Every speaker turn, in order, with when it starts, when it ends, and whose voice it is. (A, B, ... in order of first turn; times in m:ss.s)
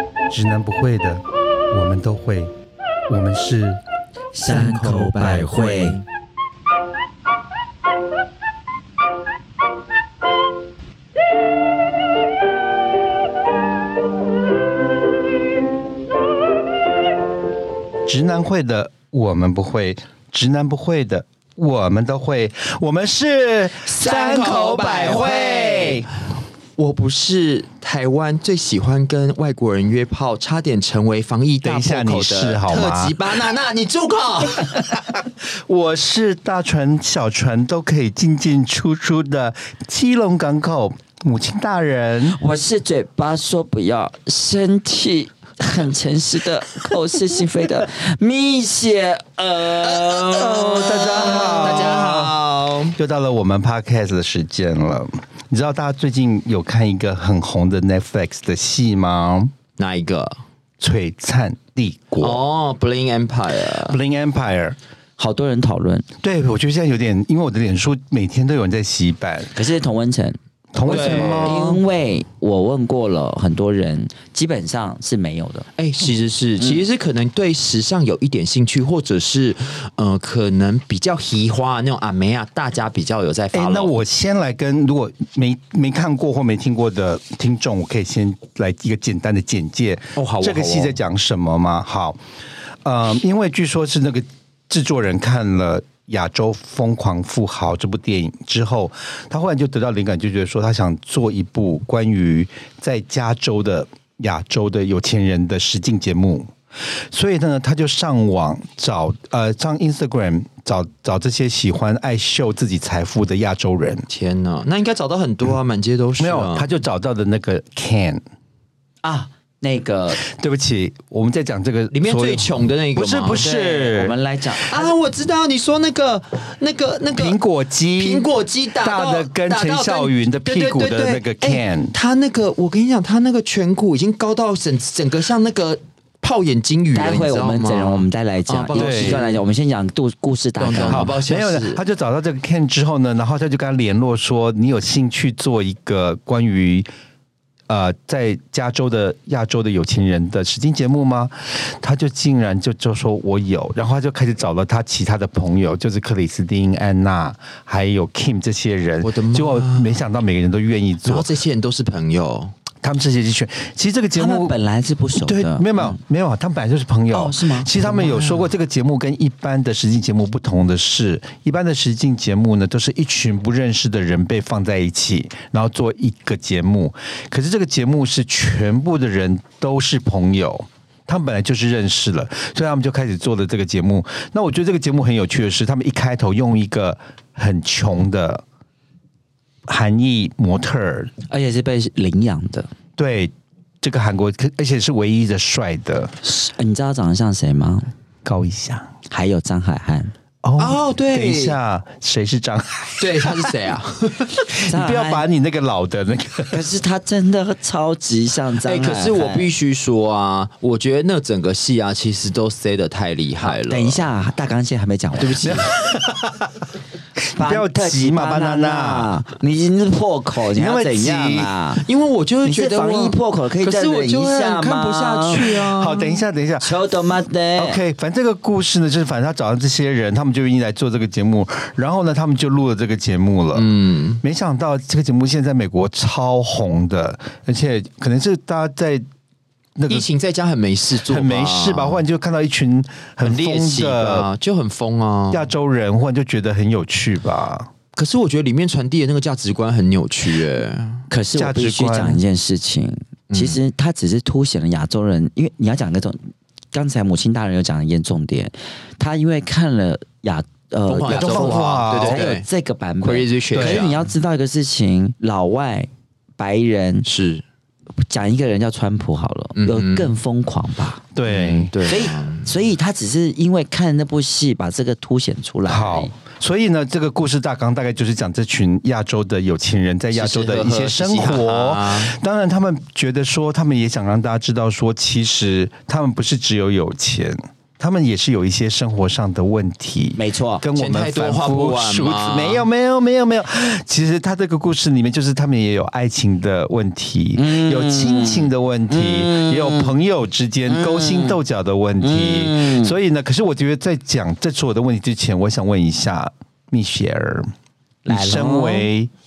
0:00.3-0:02.5 A
0:03.1-0:03.8 A
0:04.3-0:06.0 B
0:04.5-0:05.9 C
0:04.6-0:05.9 A
0:18.1-0:26.1 A
0:23.9-0:26.1 C
0:26.8-0:35.0 C
0:31.6-0:33.3 A
0:34.8-0:42.4 A
0:42.3-0:51.6 B
0:50.2-0:52.4 A
0:51.1-0:53.0 C
0:53.0-0:59.5 A
0:59.8-1:00.4 C
1:00.8-1:02.4 A
1:02.2-1:04.0 C
1:03.7-1:04.8 A
1:05.2-1:06.0 B
1:06.2-1:09.5 A
1:09.5-1:15.6 B
1:10.7-1:11.8 A
1:10.8-1:11.8 C
1:15.8-1:23.9 C
1:23.5-1:32.2 A
1:30.2-1:31.0 C
1:32.8-1:54.0 A
1:54.1-1:56.7 C
1:56.2-1:58.2 A
1:59.0-2:00.2 B
2:00.2-2:04.1 A
2:01.9-2:03.4 C
2:03.3-2:04.9 B
2:04.6-2:07.4 C
2:07.1-2:11.9 A
2:08.0-2:19.4 C
2:16.9-2:21.1 B
2:18.7-2:19.2 A
2:20.6-2:21.8 C
2:20.9-2:26.9 A
2:27.7-2:41.3 A
2:39.0-2:40.0 C
2:41.0-2:42.5 C
2:42.8-2:44.5 A
2:44.2-2:46.0 B
2:45.2-3:08.4 A
2:47.1-2:47.7 B
2:47.7-2:48.5 C
3:09.7-3:11.1 A
3:11.3-3:12.7 B
3:13.0-3:16.1 A
3:16.2-3:17.9 B
3:18.2-3:18.9 A
3:19.1-3:20.1 B
3:20.4-3:23.6 A
3:20.6-3:21.6 C
3:23.0-3:24.5 C
3:24.5-3:26.6 A
3:24.6-3:25.2 B
3:26.5-3:29.5 B
3:28.6-3:34.0 C
3:33.6-3:35.7 B
3:35.2-3:36.6 A
3:37.2-3:39.1 A
3:37.3-3:41.8 B
3:40.5-3:41.5 A
3:41.8-3:46.2 C
3:42.4-3:45.5 B
3:45.4-3:46.7 A
3:46.6-3:47.8 B
3:47.6-3:59.0 A
3:53.5-3:54.2 C
3:59.8-4:00.1 A
3:59.9-4:02.0 C
4:01.0-4:04.3 A
4:03.2-4:05.5 C
4:05.3-4:07.7 A
4:08.0-4:11.1 C
4:11.1-4:16.2 B
4:11.3-4:12.2 A
4:13.3-4:13.6 C
4:16.7-4:27.1 B
4:20.9-4:22.4 C
4:21.1-4:22.3 A
4:23.0-4:24.1 C
4:23.5-4:23.9 A
4:27.0-4:27.4 C
4:28.0-4:31.0 B
4:29.6-4:30.2 C
4:31.1-4:31.7 A
4:31.3-4:32.5 C
4:31.8-4:36.1 B
4:35.7-5:07.5 A
4:40.1-4:42.1 C
4:50.2-4:50.6 B
4:50.7-4:52.6 C
4:57.4-4:59.9 B
5:00.7-5:01.4 B
5:02.0-5:02.9 B
5:08.0-5:08.9 B
5:08.0-5:09.1 A